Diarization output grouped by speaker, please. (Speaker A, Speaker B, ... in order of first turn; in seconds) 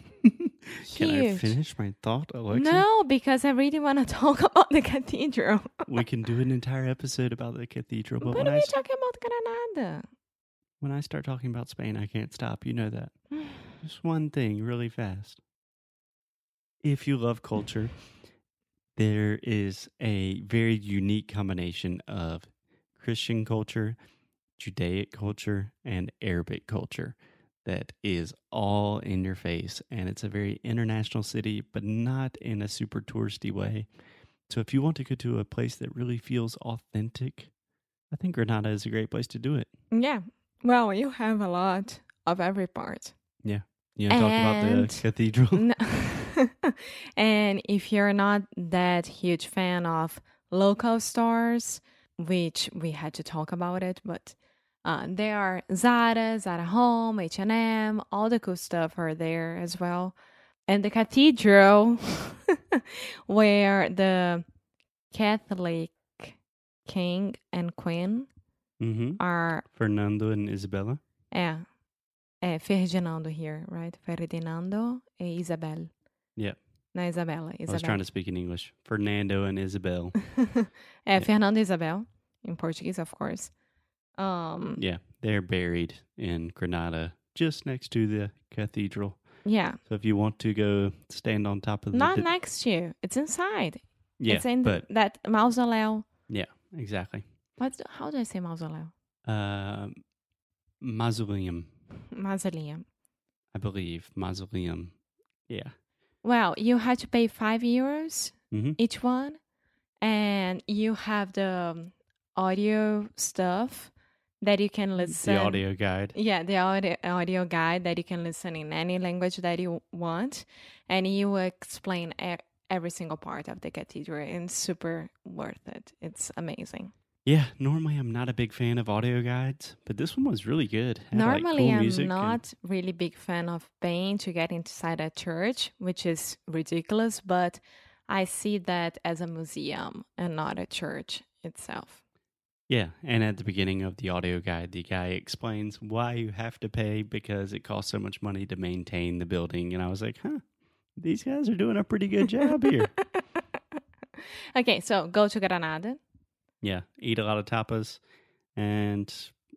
Speaker A: 0.2-2.9, 5.9-8.7, 10.8-13.1, 13.8-15.4, 16.8-17.9, 19.0-24.0, 24.6-33.9, 34.5-37.5, 38.1-39.7, 43.5-45.7, 68.8-69.2, 69.7-71.0, 77.7-80.4, 84.8-89.2, 89.8-92.3, 94.2-94.8, 96.3-97.2, 99.3-100.0, 100.8-101.7, 103.5-104.9, 105.5-105.7, 108.5-108.8, 115.0-116.2, 127.2-132.4, 142.7-150.4, 151.0-152.9, 156.6-158.0, 158.6-159.3
Speaker B: 0.8-1.6, 2.5-5.9, 8.2-10.1, 39.9-43.1, 44.1-60.2, 60.7-64.5, 65.1-68.3, 69.2-69.7, 71.3-71.7, 72.4-75.9, 76.9-78.0, 80.6-83.5, 84.2-84.8, 89.5-89.8, 91.9-96.1, 97.6-98.9, 102.1-102.8, 106.2-109.4, 110.0-115.6, 116.1-126.9, 131.1-142.0, 153.1-153.4, 154.5-156.0